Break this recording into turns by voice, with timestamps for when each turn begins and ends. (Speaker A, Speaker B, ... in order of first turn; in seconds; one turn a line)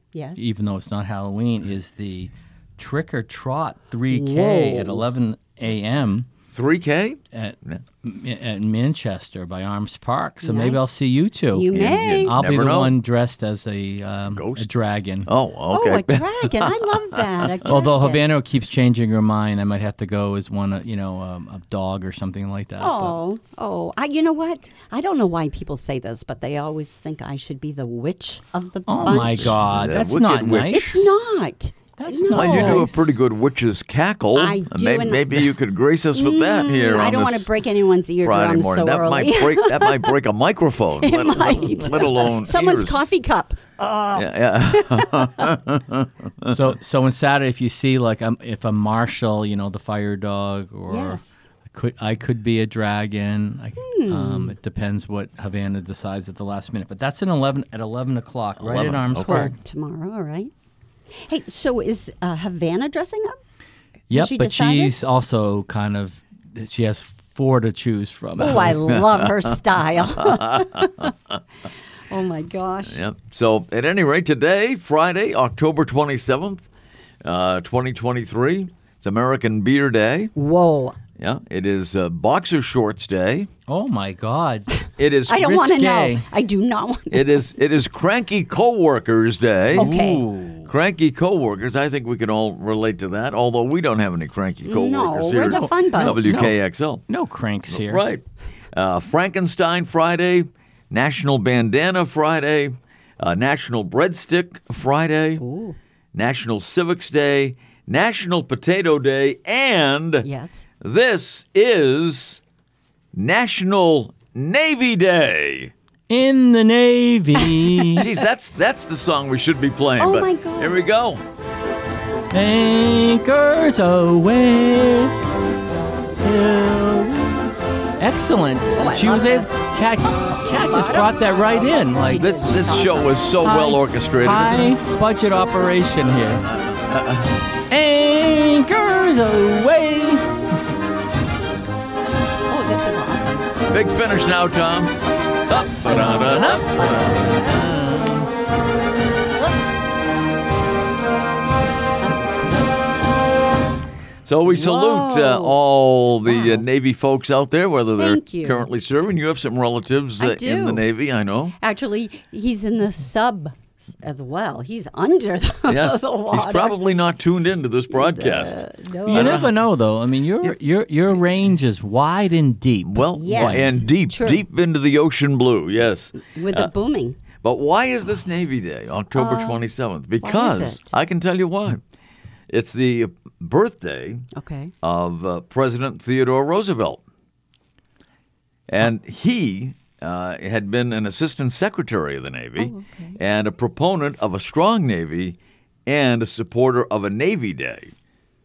Speaker A: 0.1-0.5
Speaker B: 0.4-6.3
Speaker A: 4.1-5.1
Speaker C: 6.5-7.8
Speaker B: 7.3-15.3
Speaker A: 10.4-10.9
Speaker A: 11.5-12.4
Speaker C: 11.7-12.9
Speaker C: 14.3-14.7
Speaker C: 15.3-17.7
Speaker A: 15.7-18.3
Speaker B: 17.6-23.2
Speaker A: 22.8-29.6
Speaker B: 28.9-31.1
Speaker C: 29.1-30.9
Speaker A: 30.7-32.9
Speaker B: 32.0-33.1
Speaker C: 32.3-37.5
Speaker A: 34.4-35.5
Speaker A: 36.1-40.2
Speaker C: 38.2-43.0
Speaker A: 41.0-45.5
Speaker C: 44.1-46.6
Speaker B: 46.5-51.2
Speaker A: 50.9-51.4
Speaker B: 51.7-59.5
Speaker A: 53.8-54.6
Speaker C: 58.6-59.5
Speaker A: 59.2-60.5
Speaker A: 61.1-63.4
Speaker A: 64.1-65.0
Speaker B: 64.1-68.8
Speaker A: 68.4-71.1
Speaker C: 68.4-71.4
Speaker A: 72.1-73.0
Speaker C: 72.9-76.7
Speaker C: 77.2-80.3
Speaker A: 80.3-81.0
Speaker C: 81.2-83.5
Speaker B: 83.7-86.2
Speaker C: 85.0-85.4
Speaker A: 85.3-87.4
Speaker C: 87.1-89.9
Speaker A: 89.7-90.2
Speaker B: 89.8-90.7
Speaker C: 90.7-97.0
Speaker A: 94.7-96.4
Speaker B: 95.5-96.6
Speaker B: 97.1-98.0
Speaker C: 97.7-105.4
Speaker A: 105.4-105.8
Speaker C: 106.1-110.3
Speaker A: 110.2-110.7
Speaker C: 110.8-112.4
Speaker C: 113.1-115.7
Speaker B: 116.1-118.0
Speaker A: 117.4-118.1
Speaker C: 117.9-121.2
Speaker A: 120.0-120.8
Speaker B: 122.3-125.2
Speaker B: 126.2-127.5
Speaker B: 128.0-132.3
Speaker A: 128.7-129.7
Speaker A: 130.3-133.3
Speaker C: 132.1-134.8
Speaker B: 133.4-136.4
Speaker C: 136.5-137.4
Speaker B: 137.7-140.3
Speaker A: 142.5-143.5
Speaker C: 143.7-148.3
Speaker A: 145.5-147.9
Speaker A: 149.2-149.8
Speaker A: 152.0-152.9
Speaker C: 154.2-161.6
Speaker A: 154.5-155.6
Speaker A: 156.3-156.7
Speaker A: 158.0-158.7
Speaker A: 160.2-160.8
Speaker A: 161.6-166.8
Speaker C: 165.7-169.5
Speaker A: 167.9-169.5
Speaker B: 169.1-173.8
Speaker C: 172.9-176.7
Speaker A: 173.2-174.4
Speaker A: 176.2-177.2
Speaker C: 177.4-181.8
Speaker A: 179.2-179.6
Speaker A: 180.2-181.0
Speaker C: 182.5-184.3
Speaker A: 184.3-184.7
Speaker C: 184.8-187.0
Speaker C: 188.7-197.9
Speaker A: 192.6-193.2